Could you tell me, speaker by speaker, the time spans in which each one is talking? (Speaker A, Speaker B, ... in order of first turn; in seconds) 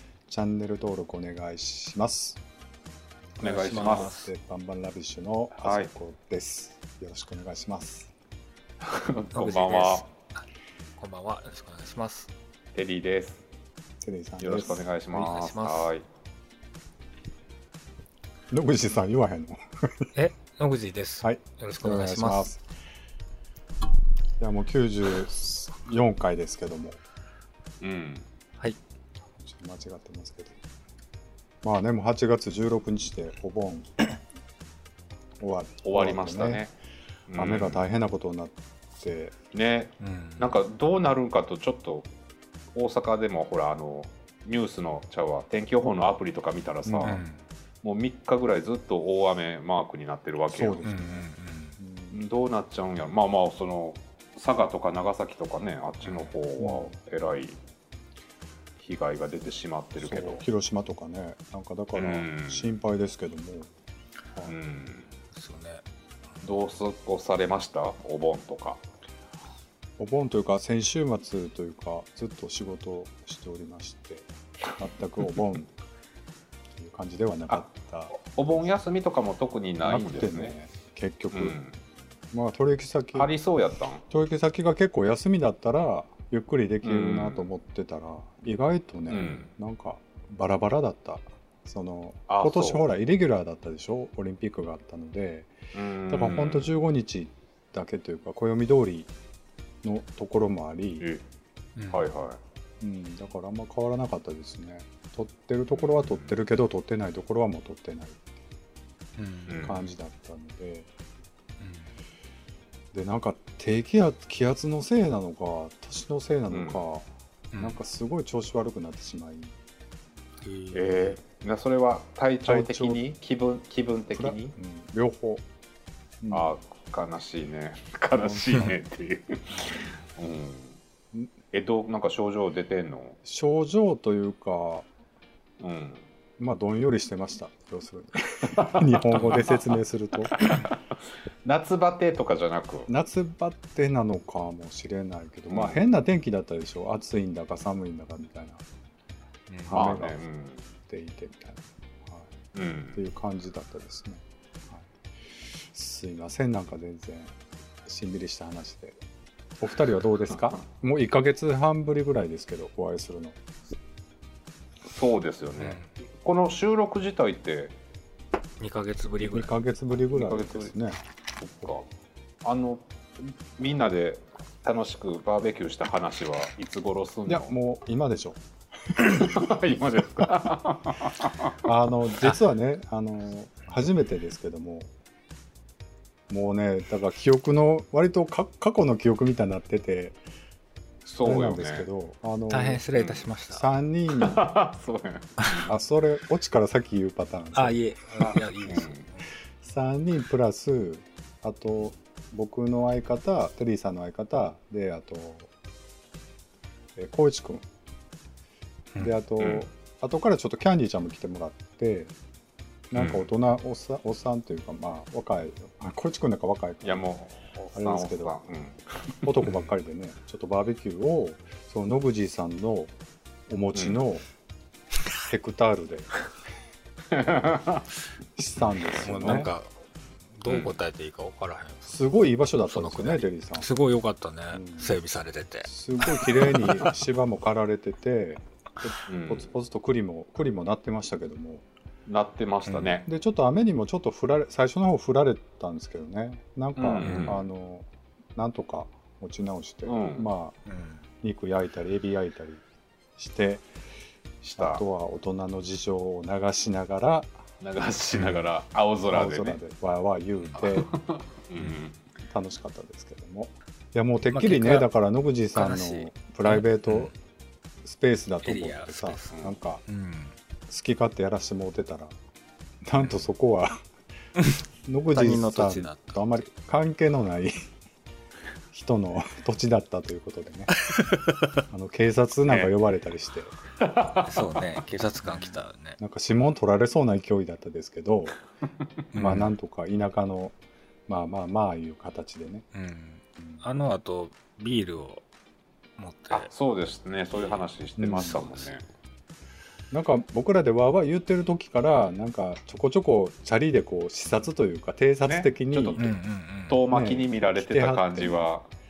Speaker A: 0.3-2.4, 3.6-8.1, 14.0-14.9, 18.5-20.1, 21.2-22.6, 24.4-27.0, 29.4-30.6, 31.6-34.0, 35.4-36.6, 37.4-39.4, 46.9-47.2, 50.5-51.3, 51.8-52.2, 56.6-56.9, 60.0-63.7, 70.0-75.7, 76.8-78.1, 79.8-81.6, 82.3-83.3, 84.1-95.5, 96.1-99.1, 99.8-101.1, 102.8-108.3, 109.6-110.9, 112.9-117.1, 117.6-119.6, 122.5-123.0, 124.1-125.4, 126.2-126.5, 133.2-134.9, 136.4-140.4, 142.9-148.7, 149.7-150.2, 150.8-152.4, 152.9-159.0, 159.6-163.4, 169.2-171.0, 177.3-178.4, 178.9-179.5, 181.6-184.9, 186.3-190.2, 191.2-192.8, 193.5-194.5, 195.7-197.8, 199.6-205.5, 207.0-207.7, 209.0-212.1, 212.9-217.0, 217.7-218.4, 219.2-222.9, 223.5-224.3, 225.2-226.1, 228.4-229.5, 231.9-233.7, 234.5-234.9, 235.7-241.7, 243.1-250.6, 251.2-252.6, 253.2-253.7, 254.6-257.3, 259.1-260.9, 262.3-267.1, 267.8-269.8, 270.7-272.1, 272.8-273.8, 274.9-277.7, 278.7-280.8, 281.7-283.6, 286.0-288.4, 289.1-290.6, 291.1-292.7, 298.0-298.4, 299.9-306.0, 306.9-308.4
Speaker B: 3.4-4.2, 5.6-5.9, 8.8-10.0, 12.8-13.4, 14.4-16.0, 27.8-28.2, 35.8-36.7, 37.3-37.8, 39.5-42.1, 42.8-47.2, 47.8-50.9, 52.1-57.6, 58.8-60.4, 62.0-62.7, 64.5-65.1, 66.4-68.8, 77.5-80.5, 81.3-81.7, 83.2-84.0, 86.8-87.5, 89.1-89.5, 92.3-92.8, 95.7-96.7, 101.9-102.4, 105.8-106.3, 109.5-109.9, 116.5-116.8, 120.7-124.5, 126.3-130.8, 131.5-133.2, 135.6-136.0, 138.6-139.6, 140.3-142.9, 145.5-145.8, 149.7-150.6, 152.5-153.0, 164.9-167.7, 170.1-170.7, 171.4-171.9, 172.4-177.5, 179.0-181.6, 191.1-191.9, 193.0-193.2, 194.1-195.8, 198.7-199.0, 209.4-209.7, 212.9-213.3, 216.8-219.4, 227.1-227.8, 230.5-230.8, 239.1-239.5, 242.1-243.1, 246.8-247.4, 249.9-250.3, 254.4-254.8, 257.6-259.6, 260.6-261.9, 283.8-284.6, 296.3-298.8, 305.2-306.2, 306.7-308.7
Speaker C: 3.4-4.3, 9.3-10.1, 11.0-12.3, 15.1-15.9, 20.1-22.5, 40.0-40.5, 47.0-47.4, 50.8-51.8, 65.3-65.8, 101.8-102.0, 109.2-109.6, 111.6-111.9, 117.5-117.8, 120.4-121.1, 129.5-129.9, 149.5-149.8, 165.6-165.9, 168.6-169.5, 192.5-193.7, 195.4-195.7, 197.6-199.2, 229.0-229.7, 230.4-232.0, 232.6-236.9, 242.7-243.0, 247.0-247.4, 250.7-251.0, 258.2-258.4, 264.3-264.9, 265.5-267.1, 268.4-270.4, 275.1-276.5, 280.8-281.6, 284.3-286.0, 289.1-289.5, 292.7-295.2, 296.0-296.5, 298.1-298.7, 306.0-306.8